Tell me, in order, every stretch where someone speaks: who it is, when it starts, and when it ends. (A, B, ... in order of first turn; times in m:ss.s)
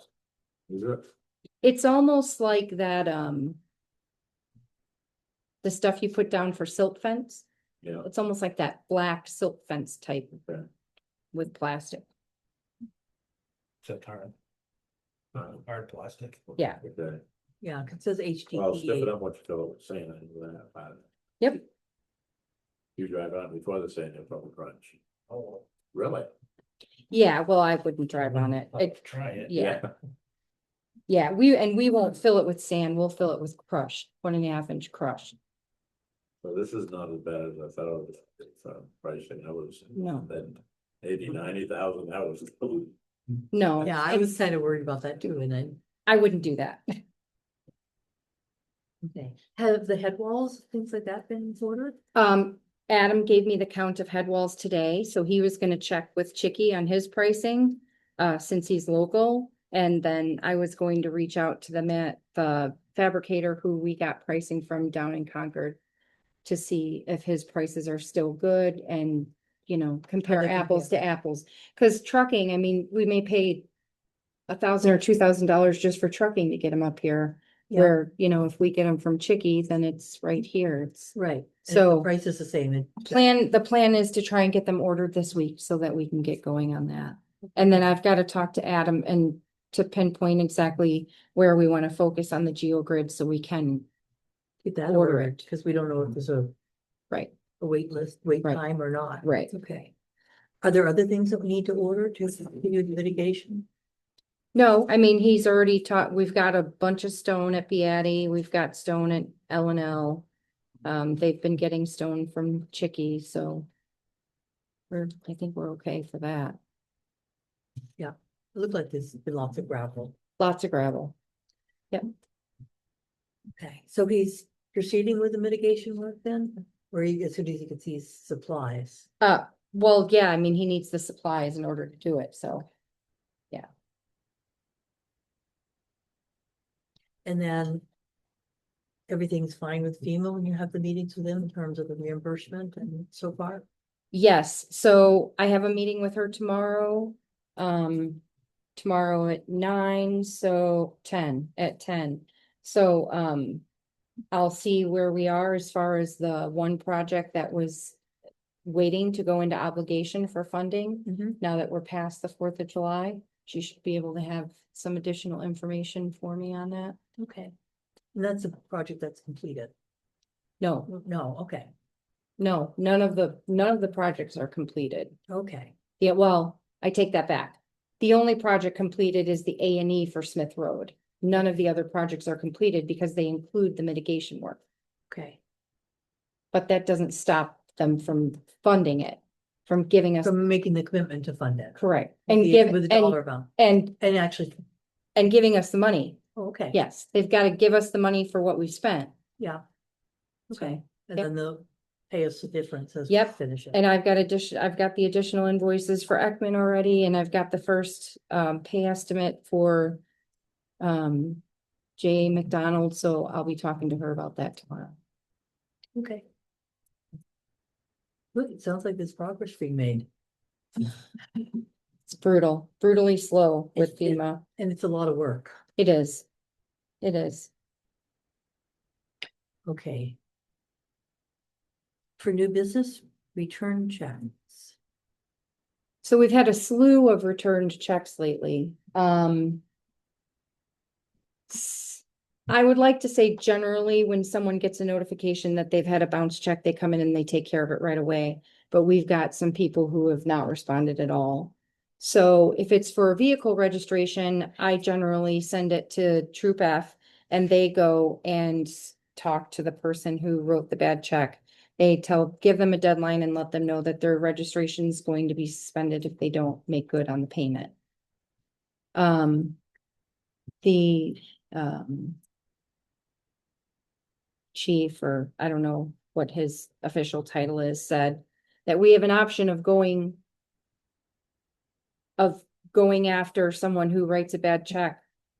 0:00.7-0:01.0 A
0:01.6-0:03.6 B
0:05.6-0:07.4 B
0:08.0-0:10.4 B
0:11.3-0:12.0 B
0:13.8-0:14.3 C
0:15.3-0:15.6 A
0:15.6-0:16.6 C
0:16.8-0:17.2 A
0:17.6-0:19.1 D
0:18.5-0:21.0 A
0:21.4-0:21.7 B
0:23.0-0:25.0 A
0:25.3-0:25.6 C
0:25.9-0:26.3 A
0:27.1-0:29.8 B
0:29.2-0:29.4 C
0:29.5-0:29.9 A
0:31.1-0:35.4 B
0:36.4-0:42.9 A
0:39.9-0:40.3 B
0:43.5-0:43.9 B
0:43.8-0:45.8 D
0:46.0-0:46.8 B
0:49.0-0:52.0 D
0:52.1-1:05.8 B
1:06.4-1:13.7 B
1:10.3-1:10.9 D
1:14.5-1:21.2 B
1:21.1-1:23.2 D
1:21.7-1:22.1 B
1:23.0-1:33.8 B
1:34.6-1:36.5 D
1:34.9-1:35.4 B
1:37.6-1:39.9 D
1:39.2-1:39.5 B
1:40.6-1:43.6 D
1:44.5-1:50.2 B
1:50.8-1:53.7 B
1:54.9-1:56.6 B
1:58.0-2:00.2 D
2:00.4-2:01.1 B
2:03.6-2:09.1 D
2:09.2-2:12.6 B
2:17.2-2:17.8 D
2:19.1-2:23.6 D
2:24.1-2:28.2 B
2:28.8-2:33.6 B
2:34.3-2:38.0 B
2:38.6-2:47.0 B
2:41.1-2:41.4 D
2:47.2-2:47.5 D
2:48.1-2:49.7 D
2:50.6-2:50.9 B
2:50.9-2:51.7 D
2:52.4-2:55.2 B
2:55.3-2:55.7 D
2:56.0-3:04.6 B
3:05.1-3:05.4 D
3:06.5-3:10.3 B
3:10.2-3:14.6 D
3:11.8-3:13.9 B
3:15.2-3:16.2 B
3:16.4-3:16.8 D
3:16.7-3:19.1 B
3:19.4-3:19.6 D
3:20.5-3:23.8 D
3:20.5-3:21.3 B
3:23.1-3:30.0 B
3:30.8-3:31.4 B
3:32.0-3:34.9 B
3:35.9-3:36.2 D
3:38.3-3:40.1 D
3:42.1-3:44.4 B
3:43.8-3:45.6 D
3:45.8-3:46.2 B
3:47.0-3:47.5 B
3:49.6-3:50.2 D
3:52.2-3:54.8 D
3:56.0-3:59.6 B
4:01.5-4:27.7 B
4:28.9-4:29.6 B
4:30.6-4:32.2 B
4:34.5-4:40.2 B
4:42.2-4:45.0 B